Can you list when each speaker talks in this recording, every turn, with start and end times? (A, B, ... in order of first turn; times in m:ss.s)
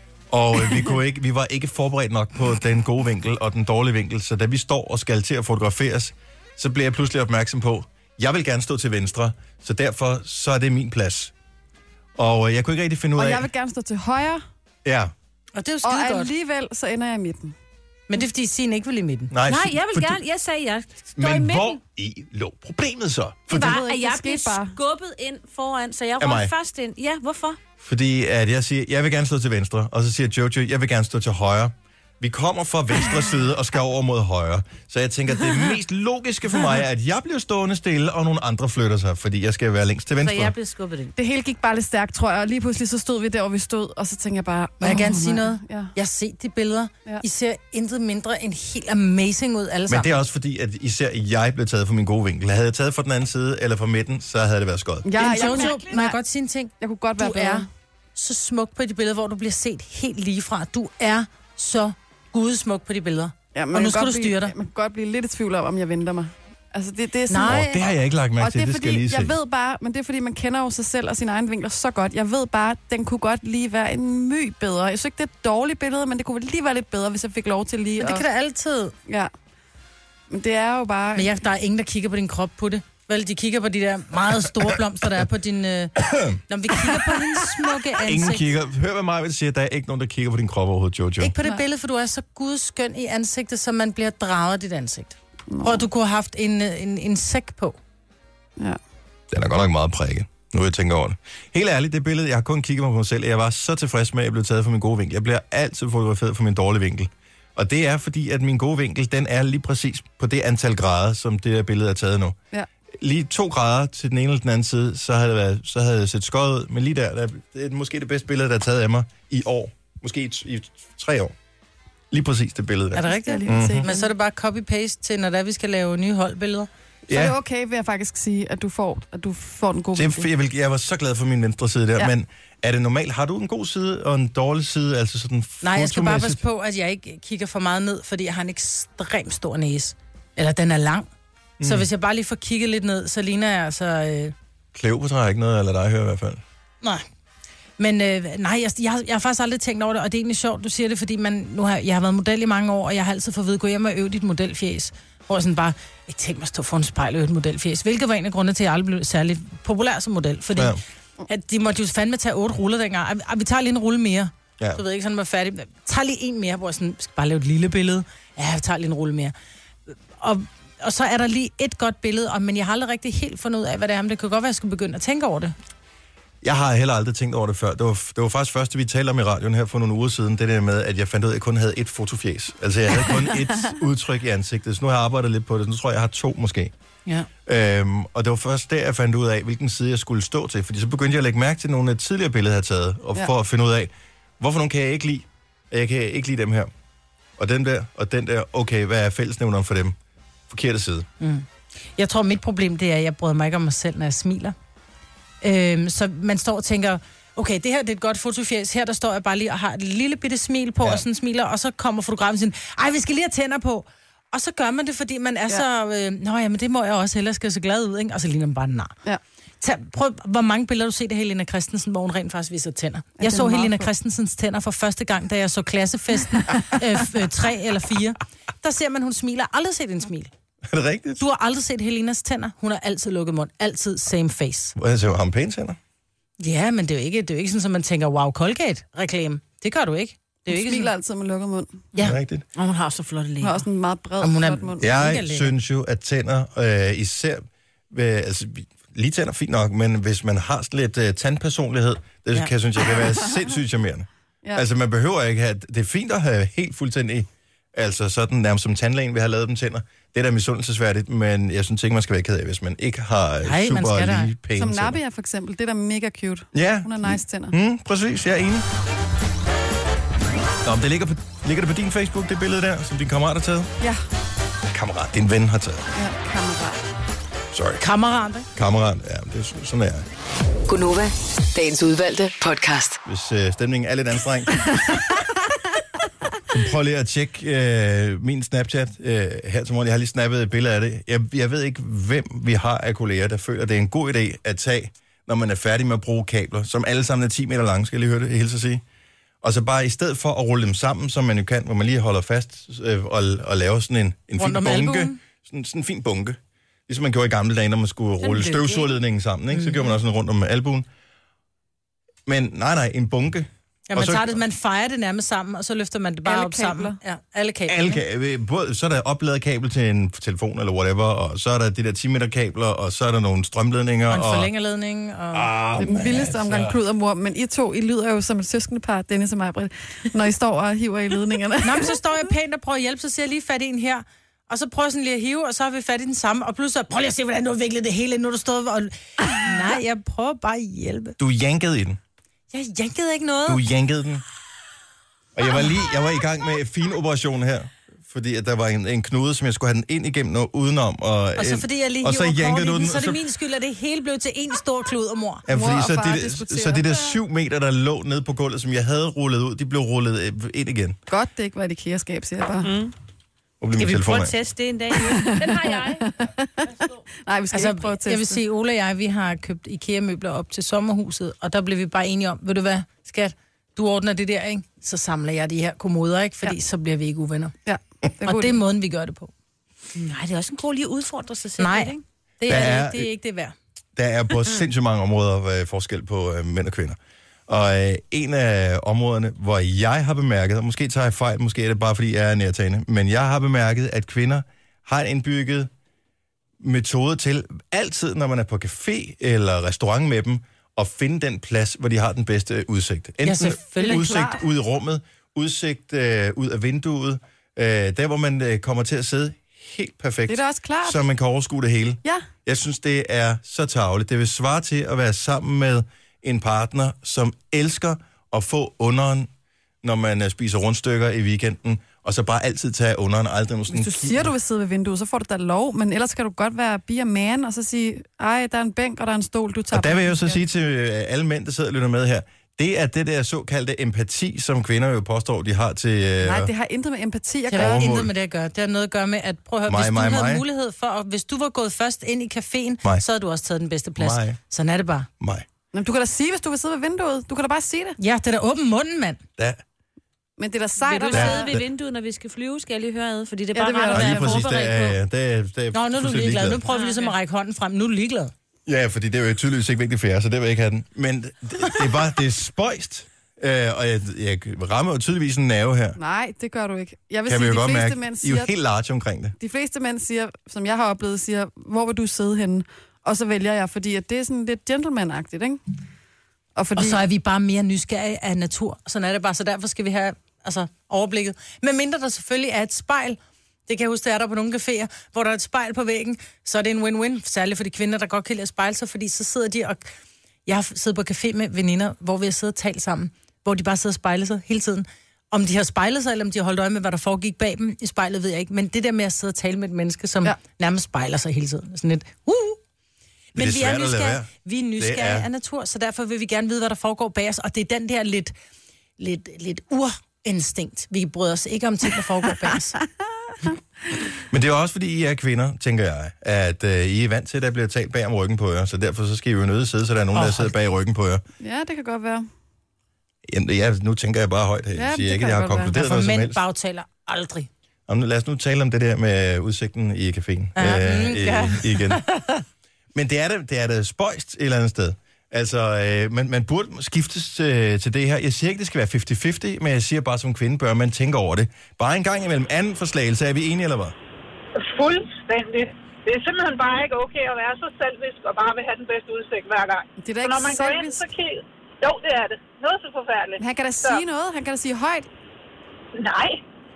0:00.3-0:11.3 A
0:12.2-0:13.5 A
0:13.2-0:14.4 B
0:14.8-0:15.1 A
0:15.6-0:16.3 C
0:15.8-0:17.5 B
0:18.1-0:19.3 C
0:19.3-0:20.2 A
0:19.5-0:21.8 D
0:21.2-0:23.8 A
0:23.5-0:27.6 D
0:23.5-0:24.8 B
0:26.2-0:26.5 A
0:27.8-0:40.5 A
0:40.2-0:41.1 D
0:41.2-0:45.9 B
0:44.8-0:50.2 C
0:49.9-0:55.1 A
0:55.0-0:56.2 B
0:55.2-1:04.5 C
0:55.5-0:55.8 D
0:56.8-0:57.7 B
1:03.5-1:07.7 B
1:07.3-1:07.8 C
1:07.4-1:09.4 A
1:08.4-1:18.2 B
1:18.0-1:18.9 C
1:19.1-1:19.3 B
1:20.3-1:21.3 B
1:21.2-1:26.0 C
1:26.0-1:26.4 A
1:26.5-1:28.4 C
1:28.0-1:31.3 A
1:31.2-1:37.8 C
1:35.5-1:35.8 B
1:39.3-1:52.4 A
1:53.0-2:01.3 A
2:02.1-2:03.9 A
2:03.0-2:06.7 C
2:03.0-2:04.1 B
2:07.1-2:07.4 A
2:07.1-2:10.3 B
2:10.0-2:16.4 A
2:15.6-2:21.1 C
2:21.6-2:21.9 A
2:21.6-2:24.3 C
2:24.7-2:26.4 A
2:27.8-2:40.8 C
2:41.3-2:49.3 C
2:49.9-2:55.6 C
2:56.4-3:06.7 A
3:07.5-3:16.7 A
3:17.4-3:20.0 A
3:20.5-3:21.1 A
3:21.2-3:24.6 C
3:25.4-3:38.9 C
3:39.6-3:50.3 C
3:43.2-3:43.9 B
3:50.7-3:51.2 A
3:51.2-3:54.8 C
3:54.8-3:55.8 A
3:56.4-4:00.9 C
4:00.5-4:01.9 B
4:01.9-4:03.5 C
4:02.0-4:02.4 A
4:02.6-4:03.4 D
4:03.4-4:04.8 B
4:04.2-4:05.5 C
4:04.8-4:25.0 A
4:23.4-4:24.3 C
4:24.6-4:27.6 B
4:26.5-4:28.7 A
4:30.6-4:33.7 A
4:34.7-4:35.9 A
4:36.0-4:36.8 B
4:37.5-4:37.8 A
4:37.8-4:38.5 C
4:38.6-4:40.1 A
4:40.7-4:43.0 E
4:43.0-4:45.0 A
4:46.5-4:58.8 A
4:59.4-5:10.9 A
5:04.4-5:05.2 C
5:08.3-5:08.9 D
5:09.5-5:09.9 C
5:12.3-5:14.4 A
5:13.9-5:18.0 C
5:16.2-5:17.0 B
5:17.7-5:24.5 A
5:24.1-5:25.5 C
5:25.3-5:26.8 A
5:25.8-5:32.0 B
5:31.6-5:41.2 C
5:41.2-5:42.0 A
5:42.5-5:43.6 C
5:43.5-5:44.2 A
5:45.4-5:53.2 A
5:51.4-5:55.4 C
5:55.5-6:01.0 A
5:55.5-5:57.2 B
6:01.1-6:02.7 B
6:02.6-6:02.9 D
6:03.6-6:04.4 A
6:03.8-6:06.0 D
6:05.0-6:08.4 B
6:07.5-6:17.5 C
6:17.7-6:18.6 B
6:18.2-6:19.3 C
6:20.0-6:22.0 D
6:21.6-6:23.6 C
6:22.5-6:23.1 A
6:24.0-6:27.0 A
6:27.5-6:35.7 A
6:36.6-6:59.3 A
6:43.2-6:44.2 C
6:43.8-6:44.4 B
6:50.3-6:51.0 B
6:59.8-7:04.3 A
7:03.7-7:10.4 B
7:09.7-7:16.5 A
7:16.2-7:17.9 B
7:17.5-7:25.1 C
7:17.5-7:18.1 A
7:19.7-7:20.4 A
7:24.0-7:24.4 A
7:25.2-7:25.5 A
7:25.7-7:28.0 B
7:28.0-7:29.2 C
7:29.4-7:29.6 A
7:30.4-7:31.5 B
7:30.8-7:35.0 D
7:31.1-7:31.6 A
7:33.5-7:34.5 B
7:33.9-7:36.6 A
7:35.7-7:38.3 C
7:36.7-7:37.1 D
7:38.7-7:46.0 A
7:46.0-7:48.5 B
7:47.3-7:49.4 A
7:49.4-7:55.6 B
7:56.6-7:57.0 B
7:56.8-8:09.9 C
8:10.5-8:22.6 C
8:23.4-8:25.3 A
8:23.4-8:28.3 C
8:29.0-8:32.8 C
8:34.3-8:41.2 A
8:40.1-8:40.5 C
8:41.4-8:42.3 B
8:43.3-8:46.4 A
8:44.7-8:45.8 B
8:45.7-8:47.5 C
8:47.9-8:52.0 A
8:50.6-8:52.3 C
8:52.9-9:04.0 A
9:04.6-9:14.0 F
9:10.0-9:11.0 B
9:13.4-9:15.1 B
9:16.0-9:16.4 F